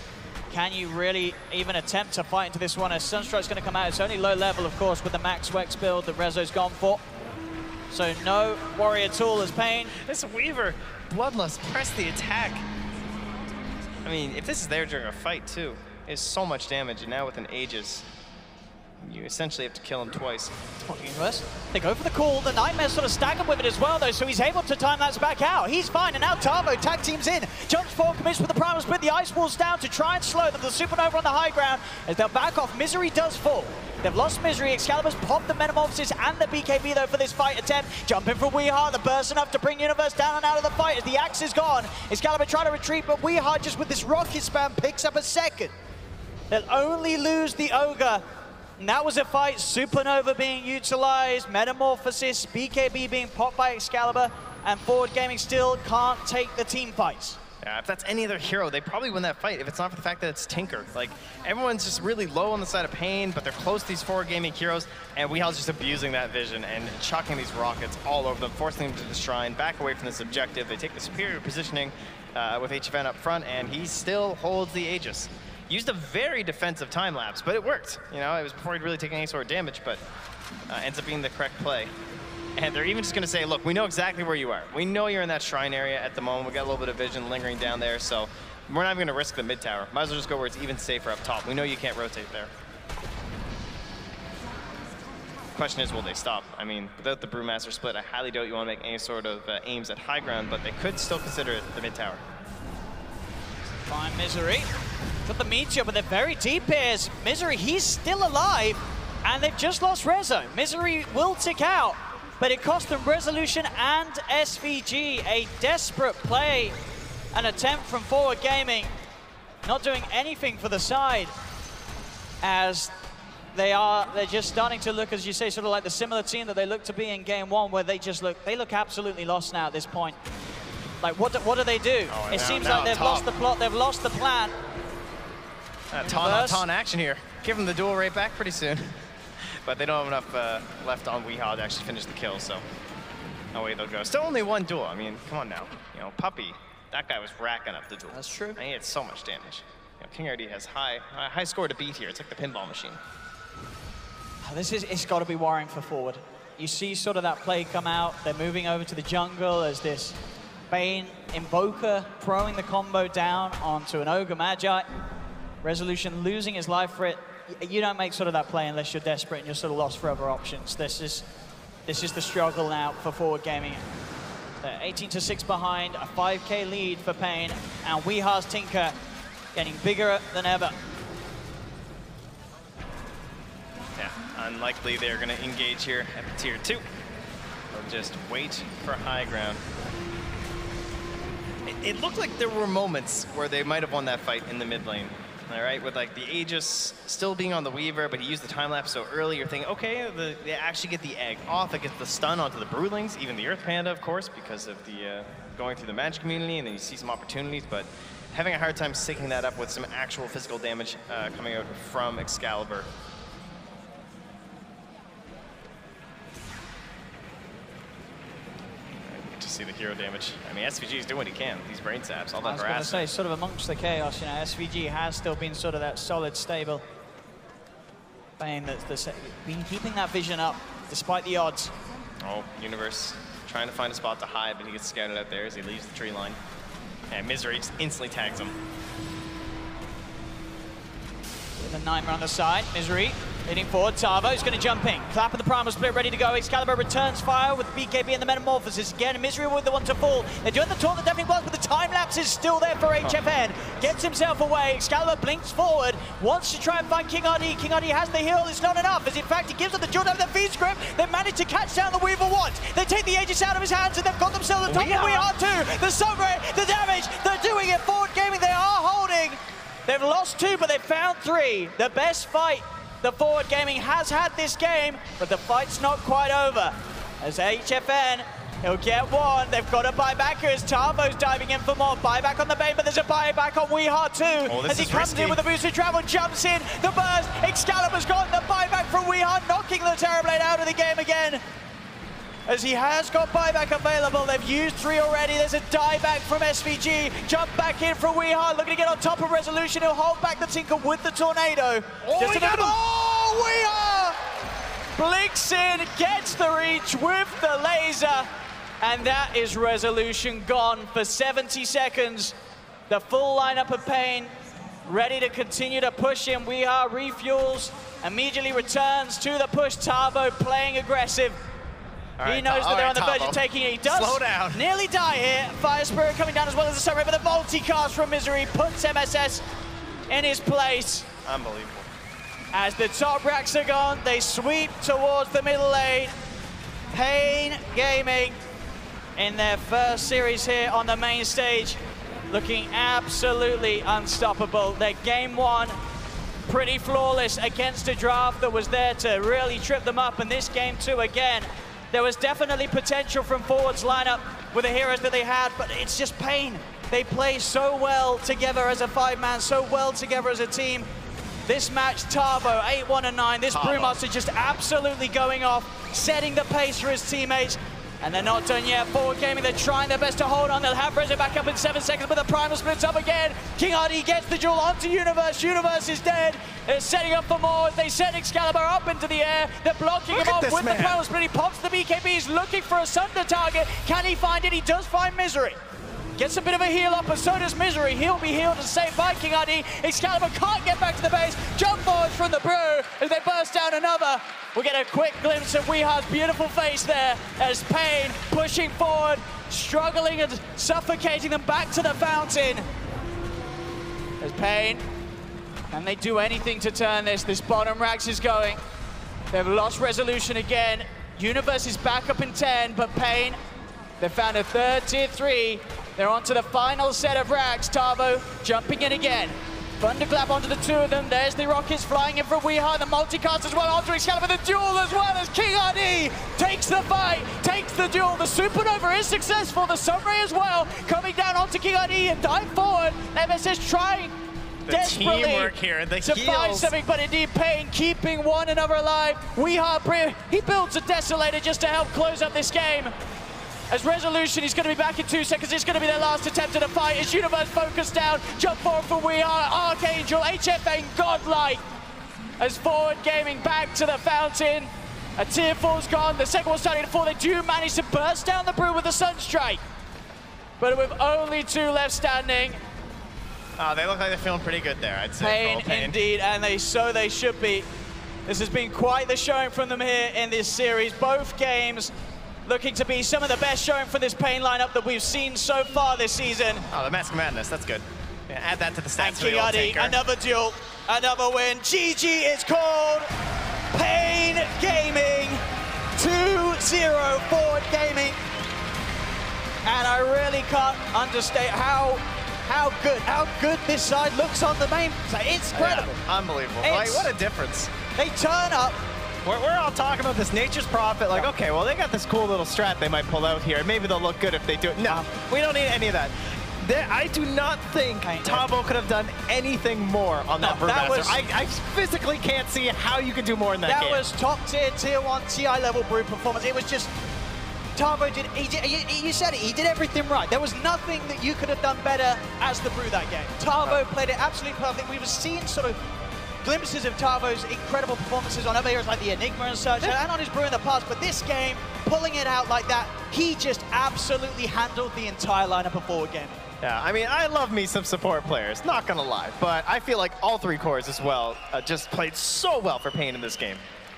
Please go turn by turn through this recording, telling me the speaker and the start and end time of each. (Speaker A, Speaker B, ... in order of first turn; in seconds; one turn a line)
Speaker A: 0.5-7.0
Speaker A: 7.9-9.9
Speaker B: 10.0-12.7
Speaker B: 14.0-18.1
Speaker B: 19.0-20.5
Speaker A: 20.8-45.7
Speaker A: 46.5-48.2
Speaker A: 48.8-57.4
Speaker B: 57.6-80.0
Speaker B: 80.7-81.9
Speaker B: 82.6-92.5
Speaker B: 95.5-102.2
Speaker A: 103.9-104.7
Speaker A: 105.2-116.8
Speaker A: 117.3-118.9
Speaker A: 119.7-121.3
Speaker A: 122.4-122.9
Speaker A: 123.5-130.2
Speaker A: 131.0-134.5
Speaker B: 132.1-133.3
Speaker B: 135.9-142.7
Speaker A: 136.0-136.7
Speaker B: 143.5-153.0
Speaker A: 148.1-148.6
Speaker A: 154.4-160.2
Speaker A: 160.7-164.9
Speaker A: 165.6-171.3
Speaker A: 171.9-173.8
Speaker A: 174.6-178.9
Speaker A: 179.6-180.8
Speaker B: 184.0-186.9
Speaker B: 187.7-189.6
Speaker B: 191.7-212.9
Speaker B: 219.0-223.1
Speaker A: 222.4-226.8
Speaker A: 228.4-231.7
Speaker B: 232.2-236.4
Speaker B: 237.1-238.6
Speaker A: 241.6-291.4
Speaker B: 264.7-265.3
Speaker B: 284.5-285.4
Speaker A: 292.5-304.2
Speaker B: 302.0-302.8
Speaker A: 305.0-308.3
Speaker A: 308.8-312.4
Speaker A: 312.9-314.3
Speaker A: 314.9-321.4
Speaker B: 322.2-324.6
Speaker A: 322.2-329.4
Speaker A: 330.1-331.1
Speaker B: 331.2-331.9
Speaker A: 332.5-336.1
Speaker A: 336.9-338.4
Speaker A: 339.2-341.8
Speaker A: 342.3-345.8
Speaker A: 346.5-360.9
Speaker A: 361.5-385.6
Speaker B: 363.5-364.0
Speaker B: 380.1-381.0
Speaker A: 386.2-402.7
Speaker A: 404.2-404.8
Speaker A: 405.7-408.6
Speaker A: 409.3-413.4
Speaker A: 414.0-434.1
Speaker B: 434.6-436.7
Speaker A: 434.7-442.9
Speaker A: 443.7-451.6
Speaker A: 452.4-459.6
Speaker A: 460.6-462.6
Speaker B: 463.6-466.0
Speaker A: 465.2-467.7
Speaker A: 468.3-471.9
Speaker A: 472.4-476.7
Speaker B: 476.7-480.0
Speaker A: 479.0-483.1
Speaker A: 483.7-485.4
Speaker A: 485.9-488.2
Speaker A: 489.6-496.0
Speaker B: 495.5-497.7
Speaker A: 496.6-497.1
Speaker A: 497.9-498.8
Speaker B: 499.2-514.0
Speaker A: 508.0-508.5
Speaker A: 510.4-511.2
Speaker A: 513.6-516.9
Speaker A: 517.8-525.8
Speaker A: 526.4-536.4
Speaker B: 536.6-543.6